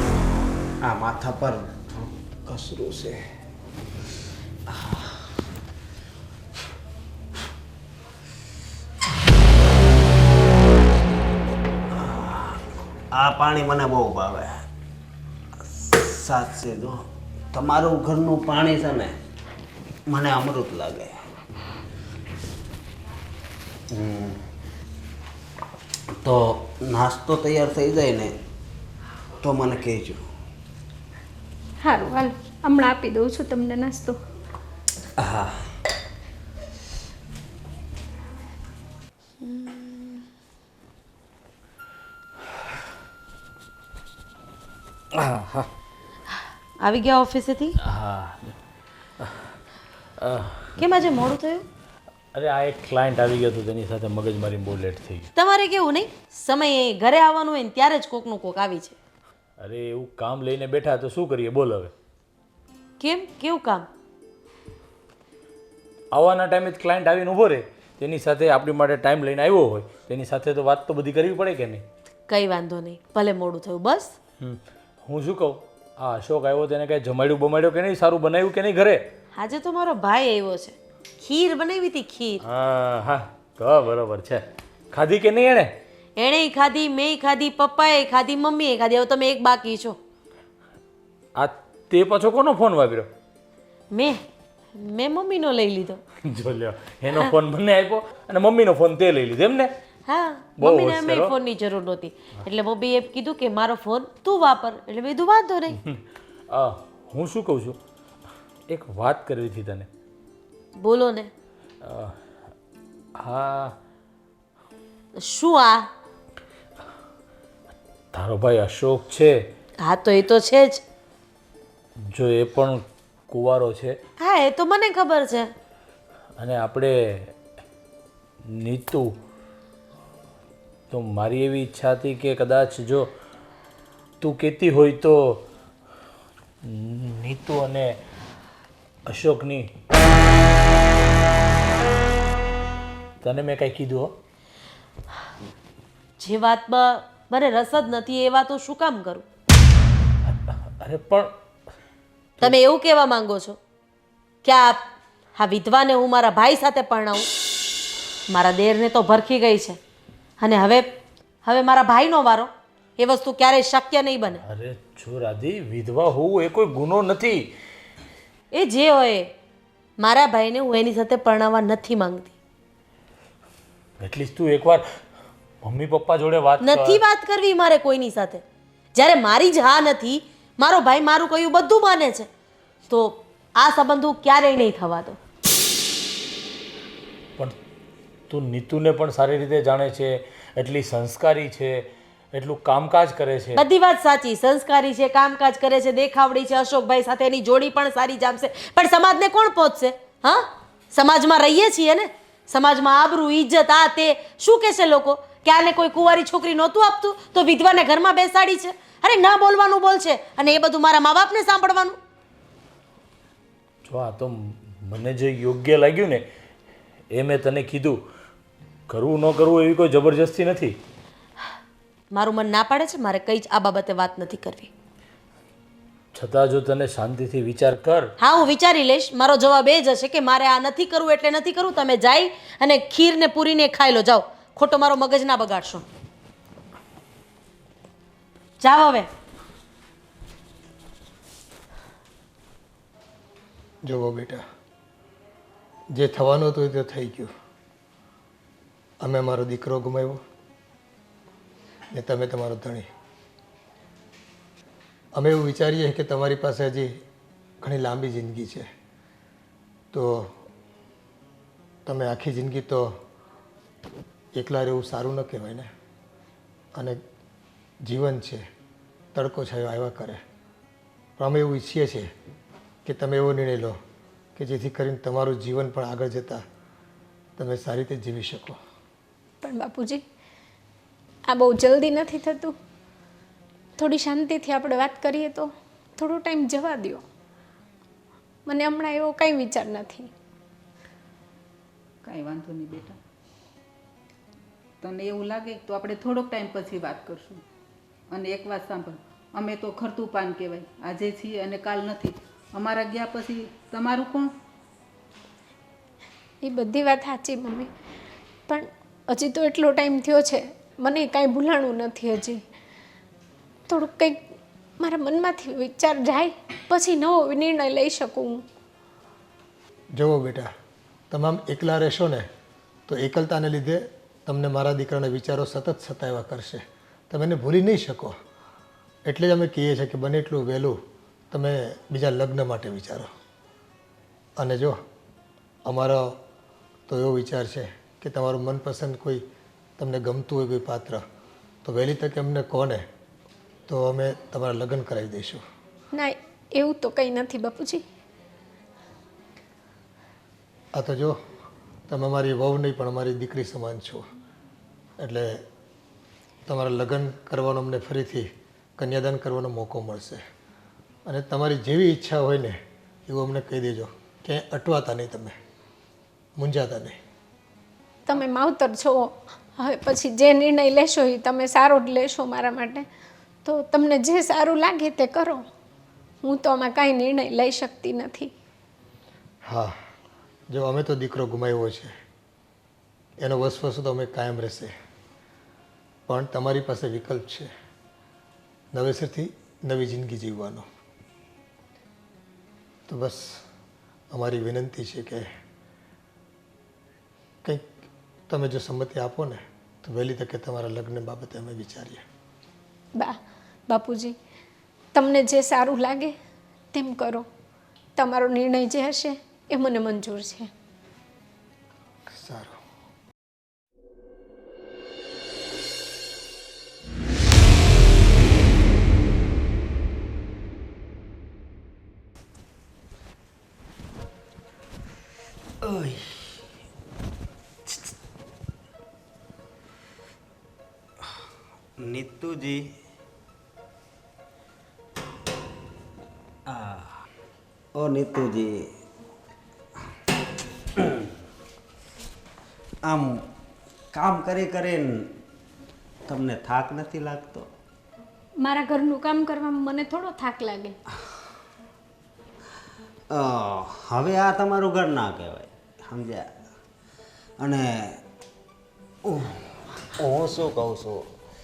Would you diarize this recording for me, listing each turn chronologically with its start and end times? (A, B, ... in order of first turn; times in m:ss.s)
0:00.8-0:03.2 A
0:04.7-0:05.2 A
0:11.9-0:14.6 A
0:15.6-0:19.2 A
0:20.1-0:21.2 A
0:23.9-0:24.5 A
0:26.2-0:28.4 A
0:29.4-0:30.2 A
0:31.8-0:34.2 B
0:35.2-0:35.7 A
0:39.5-0:40.1 B
0:45.1-0:45.7 C
0:46.8-0:47.8 D
0:47.8-0:48.6 C
0:50.2-0:50.8 C
0:50.8-0:51.6 D
0:52.3-0:55.3 C
0:55.4-0:59.0 D
0:59.6-1:01.9 C
1:03.0-1:03.9 D
1:06.1-1:11.8 C
1:12.3-1:14.2 D
1:14.4-1:19.0 C
1:19.4-1:22.4 D
1:22.4-1:25.8 C
1:26.2-1:30.0 D
1:31.4-1:33.1 C
1:33.9-1:34.2 D
1:34.8-1:36.0 D
1:36.2-1:39.7 C
1:40.1-1:45.8 D
1:40.6-1:41.3 C
1:45.8-1:47.8 C
1:48.7-1:49.9 C
1:50.8-1:51.3 D
1:51.8-1:52.2 C
1:53.2-1:53.8 C
1:55.2-1:55.9 D
1:58.1-1:59.4 C
1:59.8-2:00.8 D
2:02.1-2:04.0 C
2:04.2-2:05.5 D
2:06.4-2:07.3 C
2:08.4-2:09.1 C
2:10.9-2:13.1 C
2:14.2-2:15.4 C
2:16.6-2:18.0 C
2:19.1-2:19.7 C
2:23.2-2:24.1 C
2:26.2-2:29.2 D
2:30.2-2:31.3 C
2:32.4-2:33.6 D
2:34.4-2:34.8 D
2:35.4-2:37.3 D
2:38.3-2:39.8 D
2:40.4-2:40.9 D
2:41.4-2:44.4 D
2:44.4-2:47.5 C
2:48.5-2:49.3 D
2:50.0-2:52.3 D
2:54.0-2:54.9 C
2:55.6-2:57.0 C
2:56.6-2:58.4 D
2:59.0-3:02.3 D
3:02.9-3:05.2 D
3:08.3-3:13.6 C
3:13.6-3:32.0 D
3:33.8-3:36.2 C
3:37.1-3:38.0 C
3:38.9-3:40.8 C
3:42.1-3:44.7 D
3:46.1-3:48.1 C
3:48.2-3:55.8 D
3:58.6-3:59.1 D
4:03.8-4:04.4 E
4:05.9-4:07.3 E
4:09.0-4:10.2 E
4:11.9-4:12.9 E
4:15.2-4:17.0 E
4:17.6-4:18.7 E
4:19.9-4:20.4 E
4:21.9-4:23.0 E
4:24.4-4:25.7 E
4:26.8-4:27.0 E
4:27.8-4:28.5 E
4:29.1-4:30.2 E
4:31.2-4:32.1 E
4:32.8-4:33.8 E
4:34.4-4:36.4 E
4:37.4-4:38.6 E
4:39.4-4:40.0 B
4:41.3-4:42.6 B
4:43.8-4:47.0 B
4:48.5-4:50.1 B
4:52.0-4:53.0 F
4:54.8-4:57.4 F
4:58.1-5:04.3 F
5:06.4-5:07.7 B
5:08.5-5:12.4 B
5:13.7-5:14.2 B
5:14.8-5:18.4 B
5:20.0-5:20.5 E
5:21.1-5:22.3 E
5:22.9-5:28.2 E
5:29.1-5:30.8 E
5:31.3-5:33.1 E
5:34.4-5:34.8 E
5:35.7-5:36.2 E
5:36.9-5:39.2 E
5:39.8-5:41.0 E
5:41.6-5:42.9 E
5:43.7-5:45.4 E
5:45.9-5:47.8 B
5:50.7-5:51.2 E
5:51.9-5:54.0 E
5:55.0-5:55.4 E
5:56.5-6:00.2 E
6:01.1-6:05.4 E
6:06.4-6:07.0 E
6:08.0-6:12.9 B
6:13.4-6:15.4 B
6:16.2-6:18.3 B
6:19.5-6:19.8 E
6:20.5-6:22.0 E
6:23.2-6:24.7 E
6:26.1-6:27.5 E
6:28.7-6:30.7 E
6:32.9-6:33.4 E
6:34.1-6:35.3 E
6:37.4-6:37.7 E
6:38.3-6:42.0 E
6:43.0-6:44.2 B
6:44.9-6:46.2 B
6:46.7-6:47.3 B
6:48.0-6:50.5 B
6:52.1-6:52.6 E
7:05.6-7:06.4 A
7:07.7-7:07.9 A
7:11.8-7:12.7 A
7:16.5-7:17.0 A
7:17.8-7:18.7 A
7:20.8-7:21.1 A
7:22.8-7:23.3 A
7:23.9-7:25.2 A
7:26.1-7:27.5 A
7:28.4-7:30.8 B
7:33.1-7:36.3 A
7:37.4-7:38.0 A
7:39.0-7:41.1 A